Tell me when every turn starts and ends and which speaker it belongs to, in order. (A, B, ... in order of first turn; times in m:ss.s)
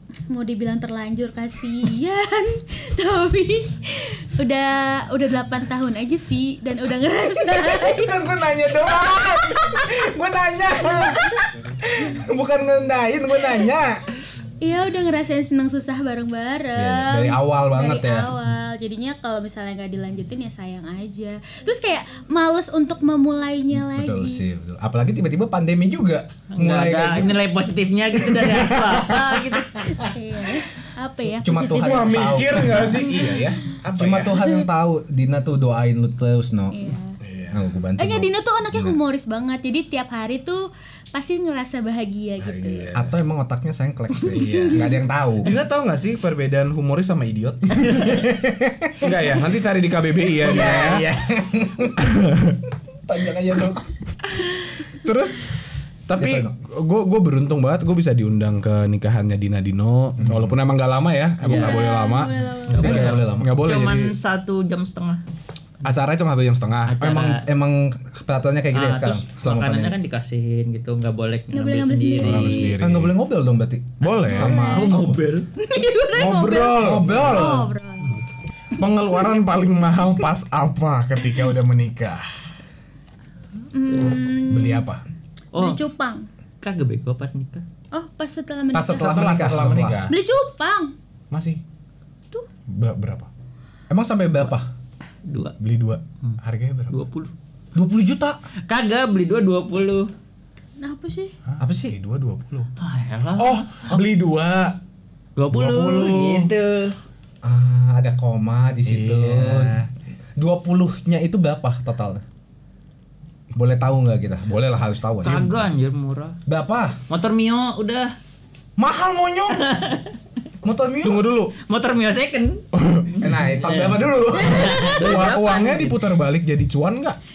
0:00.3-0:08.3 A
0:07.7-0:11.2 B
0:08.8-0:09.9 A
0:11.0-0:11.5 A
0:12.0-0:14.0 B
0:14.6-0:24.4 A
0:16.8-0:18.3 B
0:23.8-0:27.4 B
0:26.5-0:29.9 C
0:29.8-0:33.6 A
0:31.4-0:33.1 B
0:31.7-0:34.3 D
0:33.9-0:37.0 B
0:34.4-0:34.6 A
0:36.7-0:37.2 A
0:37.2-0:37.6 D
0:37.5-0:39.0 B
0:38.0-0:42.9 A
0:42.4-0:43.2 D
0:42.9-0:45.5 B
0:44.3-0:45.0 A
0:44.3-0:48.2 D
0:47.9-0:49.2 B
0:49.0-0:51.1 D
0:50.4-0:52.0 B
0:50.4-0:51.2 C
0:52.0-0:52.6 D
0:53.1-0:53.8 B
0:53.2-0:53.8 D
0:54.9-0:55.5 D
0:56.1-1:04.1 D
0:56.2-0:56.5 B
1:00.2-1:00.6 B
1:01.4-1:03.1 A
1:01.5-1:01.8 C
1:02.7-1:05.2 C
1:02.8-1:03.5 B
1:05.8-1:07.0 D
1:06.9-1:07.5 C
1:07.0-1:10.0 B
1:08.7-1:12.7 C
1:11.5-1:12.8 A
1:12.2-1:13.1 D
1:12.8-1:15.1 B
1:14.0-1:14.6 D
1:14.2-1:15.5 C
1:14.3-1:15.0 A
1:15.6-1:18.2 A
1:16.2-1:17.5 D
1:16.4-1:17.7 B
1:17.1-1:17.4 C
1:18.0-1:18.3 C
1:18.8-1:22.4 D
1:23.7-1:24.9 A
1:23.9-1:24.2 C
1:24.1-1:25.0 D
1:25.5-1:25.8 C
1:25.6-1:26.3 A
1:26.6-1:27.6 C
1:27.9-1:29.3 A
1:28.7-1:30.1 B
1:28.9-1:30.2 D
1:29.4-1:29.9 C
1:30.1-1:30.9 A
1:31.3-1:31.6 D
1:32.7-1:33.3 D
1:33.9-1:34.7 B
1:35.2-1:35.6 C
1:35.6-1:37.0 D
1:36.9-1:37.3 C
1:37.8-1:38.4 B
1:38.7-1:40.1 C
1:40.8-1:41.3 A
1:41.5-1:42.7 D
1:41.6-1:42.0 B
1:42.8-1:43.9 C
1:43.4-1:44.8 D
1:45.4-1:47.0 C
1:45.5-1:46.5 D
1:47.4-1:49.8 B
1:48.8-1:49.9 D
1:50.4-1:52.2 B
1:53.6-1:55.6 B
1:55.2-1:56.4 C
1:56.5-1:57.0 B
1:57.1-1:58.1 C
1:58.8-1:59.6 B
1:59.6-2:00.1 C
2:00.6-2:01.3 B
2:01.0-2:01.5 D
2:01.7-2:02.6 C
2:02.7-2:07.2 D
2:03.2-2:04.8 B
2:03.4-2:06.0 C
2:04.3-2:05.0 A